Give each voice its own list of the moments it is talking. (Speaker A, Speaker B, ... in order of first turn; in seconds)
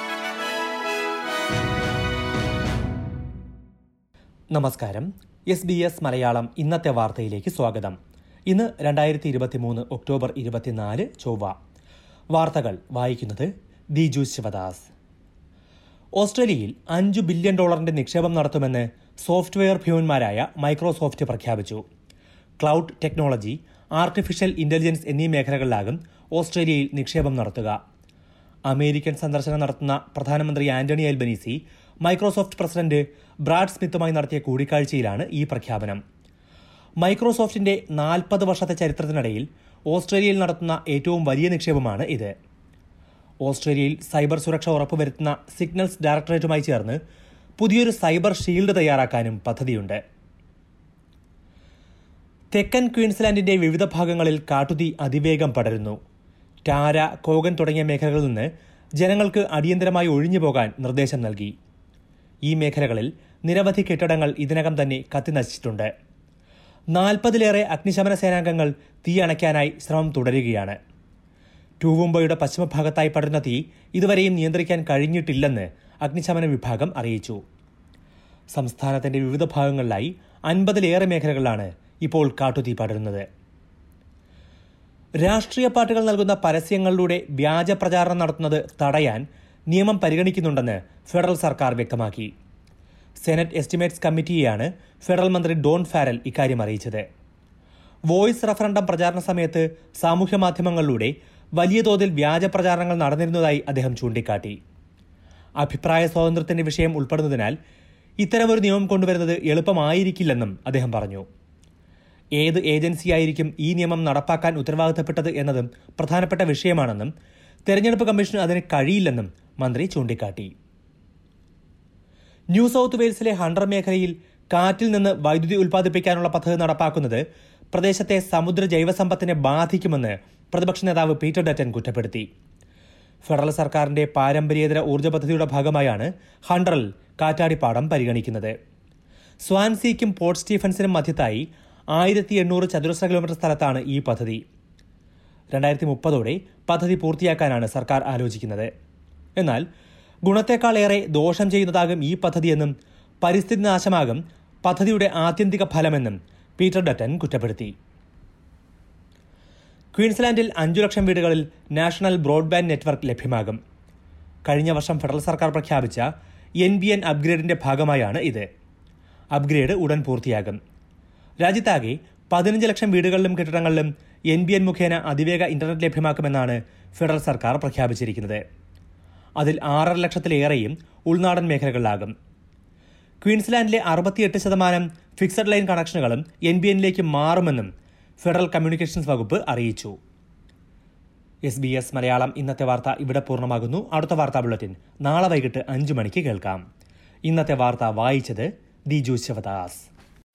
Speaker A: 4.5-8.0, 8.5-11.5, 12.3-14.9, 16.2-21.8, 22.6-27.8, 28.7-36.0, 37.0-42.3, 43.4-47.0, 47.6-50.0, 52.5-56.0, 56.6-61.5, 62.5-65.9, 66.9-70.8, 71.8-77.4, 78.5-83.2, 85.2-92.3, 93.2-97.0, 98.1-104.6, 105.6-107.5, 108.2-111.2, 112.4-117.1, 117.7-120.5, 122.5-132.2, 133.2-138.5, 139.4-144.4, 145.5-148.7, 149.4-149.6, 150.2-157.7, 159.9-163.6, 164.5-166.1, 166.6-168.4, 169.3-170.6, 171.4-178.4, 179.4-182.1, 183.2-187.7, 188.2-189.9, 191.4-196.6, 197.3-199.8